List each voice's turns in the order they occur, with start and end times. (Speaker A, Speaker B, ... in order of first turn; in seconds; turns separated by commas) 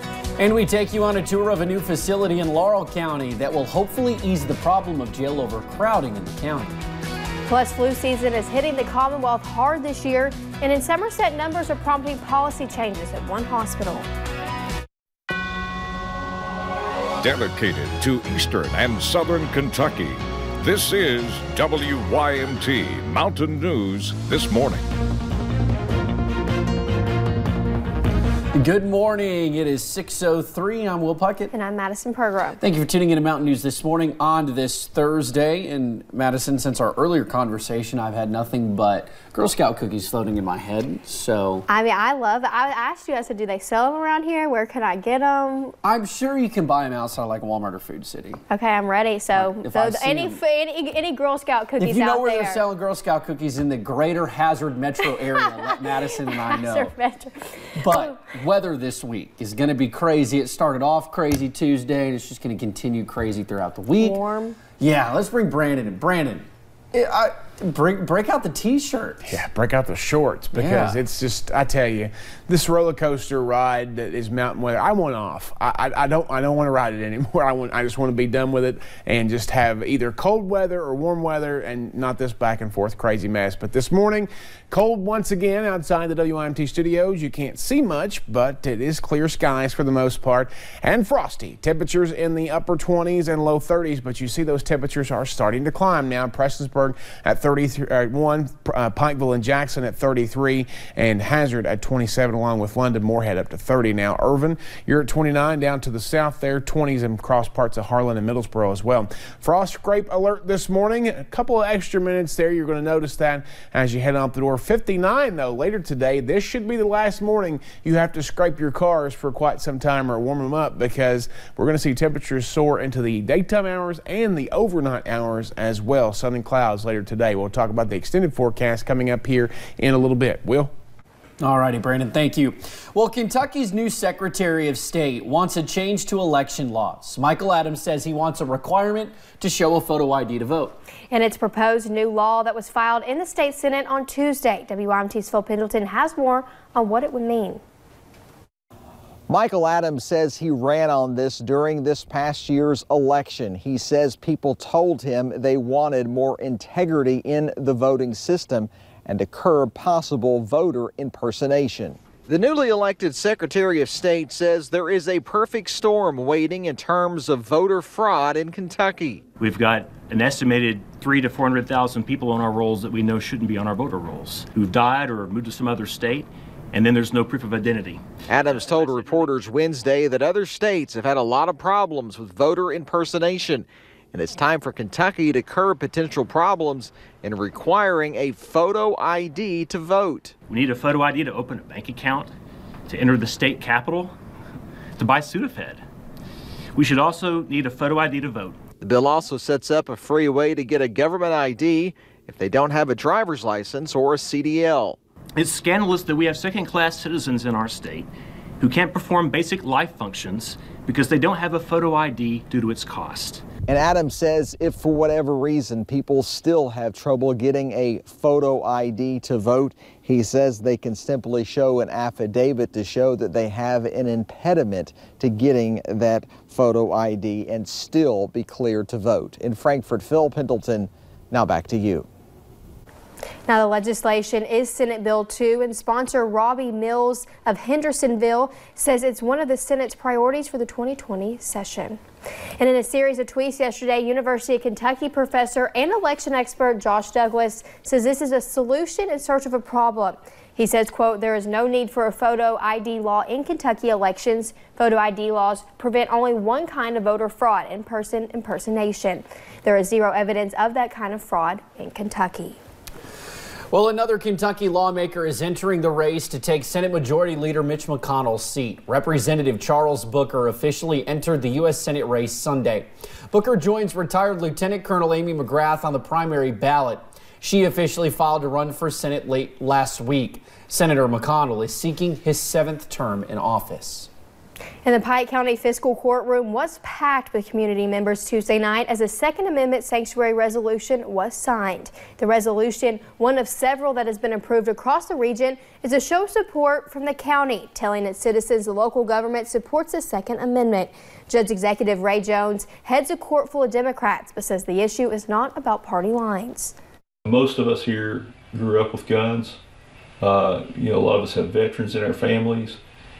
Speaker A: 0.4-6.8, Speaker B: 7.5-14.1, Speaker C: 17.2-24.8, Speaker A: 28.5-31.5, Speaker B: 31.5-32.6, Speaker A: 32.6-41.6, Speaker B: 41.7-45.8, Speaker A: 45.8-48.4, Speaker B: 48.5-52.6, Speaker A: 49.3-50.4, Speaker A: 51.8-56.9, Speaker B: 56.3-58.1, Speaker A: 57.8-64.2, Speaker B: 63.9-64.6, Speaker A: 64.8-69.4, Speaker D: 69.2-130.7, Speaker A: 70.5-71.0, Speaker A: 131.4-140.7, Speaker B: 141.1-147.6, Speaker E: 149.3-169.2, Speaker F: 169.4-178.0, Speaker E: 178.3-190.3, Speaker F: 178.6-179.3, Speaker F: 190.5-192.3, Speaker F: 192.9-194.1, Speaker F: 195.0-195.8, Speaker F: 196.7-198.5, Speaker E: 198.8-205.0, Speaker F: 205.4-208.1, Speaker F: 208.6-213.4, Speaker E: 213.7-232.1, Speaker B: 233.5-242.0, Speaker B: 242.6-262.6, Speaker A: 263.7-284.1, Speaker B: 284.8-306.7, Speaker G: 307.3-309.6, Speaker G: 310.2-312.8